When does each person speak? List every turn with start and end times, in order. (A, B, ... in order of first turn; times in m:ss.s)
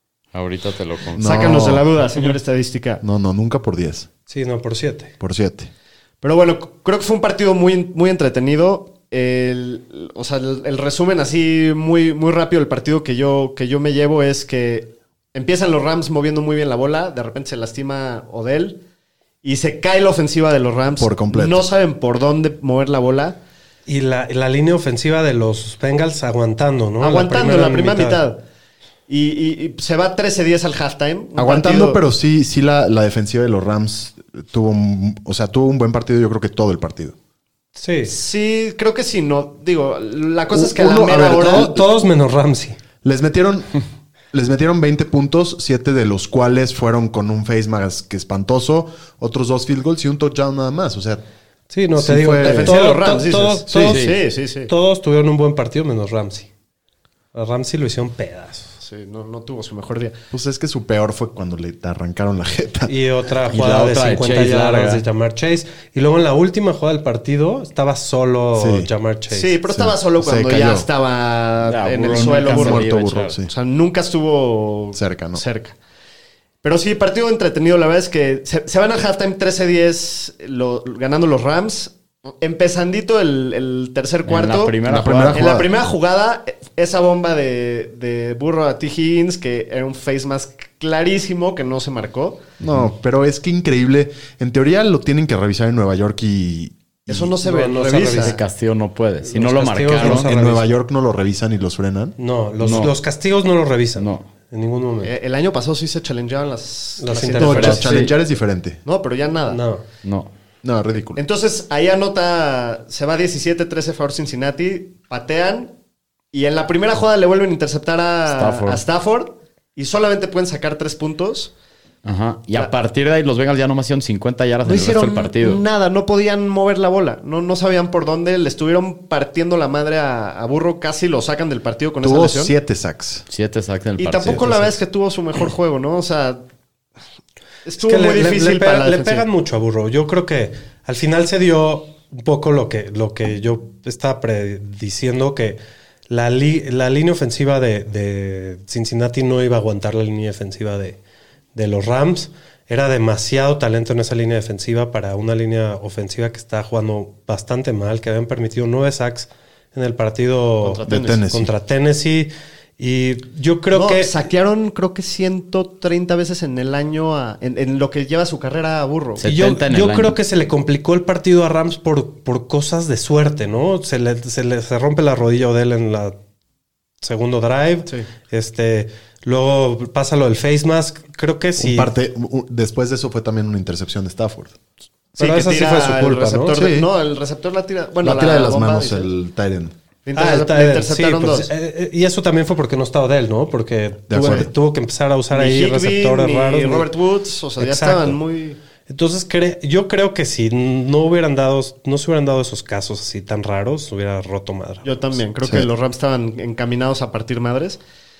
0:00.3-0:01.8 A
0:01.1-0:01.9 B
0:01.2-0:03.0 C
0:03.0-0:04.1 B
0:04.3-0:05.1 D
0:05.2-0:05.7 B
0:06.2-0:18.8 C
0:19.4-0:23.4 C
0:21.0-0:21.6 B
0:23.8-0:28.2 D
0:27.0-0:28.4 C
0:29.1-0:32.0 C
0:31.4-0:37.1 B
0:37.8-0:38.1 D
0:38.0-0:41.7 C
0:40.5-0:41.8 B
0:41.4-0:42.8 D
0:43.0-0:43.7 B
0:44.3-0:51.2 B
0:51.7-0:54.1 D
0:52.0-0:52.8 B
0:52.4-0:54.7 C
0:53.7-0:54.0 B
0:53.9-0:54.2 A
0:54.7-0:56.5 D
0:57.3-0:58.7 D
0:58.8-1:00.2 C
1:00.3-1:02.9 B
1:02.9-1:09.5 D
1:03.5-1:05.0 A
1:08.5-1:08.9 B
1:09.3-1:15.8 C
1:09.7-1:10.9 B
1:11.6-1:13.4 A
1:12.1-1:13.5 B
1:14.9-1:15.4 B
1:16.6-1:24.8 C
1:24.2-1:25.4 A
1:24.8-1:25.7 B
1:25.3-1:32.5 C
1:32.6-1:37.3 B
1:37.1-1:38.4 C
1:37.4-1:38.4 D
1:38.1-1:40.3 A
1:39.2-1:40.7 D
1:40.0-1:42.2 B
1:42.2-1:45.1 D
1:42.6-1:42.9 A
1:44.0-1:44.2 A
1:45.0-1:48.1 C
1:47.0-1:48.1 D
1:47.3-1:48.8 B
1:47.5-1:48.0 A
1:48.8-1:49.6 C
1:49.5-1:49.8 D
1:50.0-1:50.3 A
1:50.6-1:51.2 B
1:51.2-1:55.7 C
1:56.3-2:01.5 C
1:58.3-1:58.8 A
2:02.0-2:05.6 A
2:04.6-2:12.5 C
2:12.0-2:13.2 B
2:13.3-2:14.7 A
2:14.0-2:16.4 C
2:14.4-2:14.7 D
2:17.6-2:19.2 C
2:17.8-2:25.6 D
2:26.1-2:31.0 D
2:31.5-2:44.1 D
2:40.6-2:41.2 C
2:40.8-2:41.5 B
2:43.7-2:49.2 C
2:49.2-2:50.1 A
2:49.2-2:56.2 D
2:57.0-3:01.9 D
3:01.6-3:04.6 B
3:05.2-3:06.6 D
3:05.2-3:09.1 C
3:06.5-3:06.9 B
3:08.0-3:09.7 B
3:10.0-3:11.5 C
3:10.1-3:16.9 D
3:14.1-3:14.5 B
3:15.3-3:18.6 C
3:17.6-3:18.2 D
3:18.9-3:25.2 D
3:24.8-3:27.8 C